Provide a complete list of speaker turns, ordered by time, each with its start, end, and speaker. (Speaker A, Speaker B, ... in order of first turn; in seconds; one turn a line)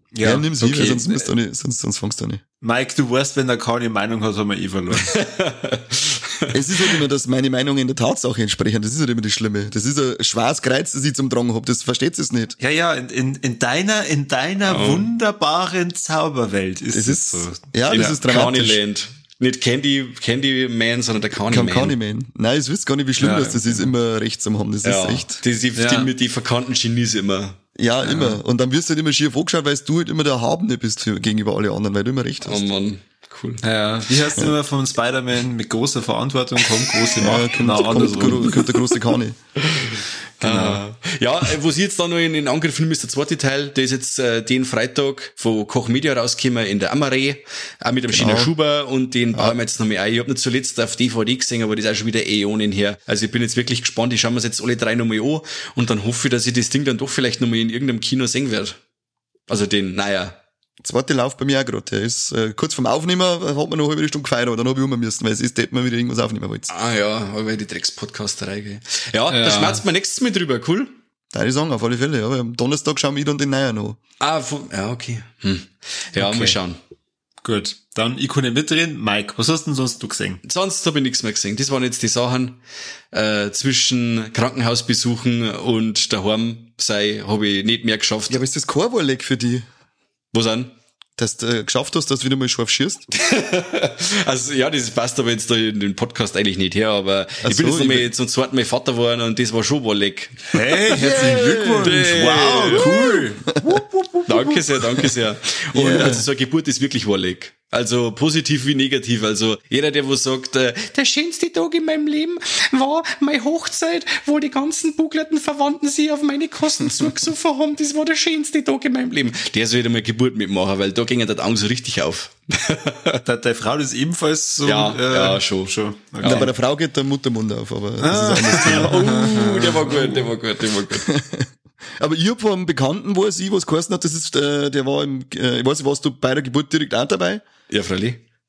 Speaker A: 0.1-0.5
Speaker B: 0.2-2.4
Speaker C: 0.6-1.3
Speaker A: 2.6-5.1
Speaker C: 5.1-6.9
Speaker B: 6.5-12.6
Speaker A: 12.6-18.2
Speaker C: 14.7-15.1
Speaker B: 16.9-18.8
Speaker C: 17.9-21.9
Speaker B: 21.5-25.4
Speaker A: 23.2-23.9
Speaker C: 24.8-27.6
Speaker A: 25.8-26.1
Speaker B: 27.8-32.7
Speaker C: 32.4-33.6
Speaker A: 33.6-38.7
Speaker B: 37.2-39.4
Speaker C: 39.6-58.8
Speaker A: 40.4-40.8
Speaker B: 48.1-48.5
Speaker C: 59.5-60.4
Speaker B: 60.8-66.7
Speaker C: 66.7-70.9
Speaker A: 69.3-69.8
Speaker B: 71.3-74.0
Speaker C: 74.2-76.8
Speaker A: 76.2-76.6
Speaker A: 77.4-80.4
Speaker C: 80.4-82.6
Speaker C: 83.1-88.4
Speaker B: 88.3-89.7
Speaker C: 90.3-90.7
Speaker B: 91.2-93.1
Speaker C: 93.1-100.6
Speaker B: 97.4-98.1
Speaker A: 100.5-104.3
Speaker B: 100.9-102.1
Speaker C: 101.8-102.9
Speaker B: 102.7-105.1
Speaker C: 104.3-123.2
Speaker B: 105.7-106.3
Speaker A: 123.2-126.5
Speaker C: 124.6-126.5
Speaker B: 126.2-129.2
Speaker A: 128.0-130.2
Speaker C: 128.4-131.1
Speaker B: 131.0-137.4
Speaker C: 137.7-138.2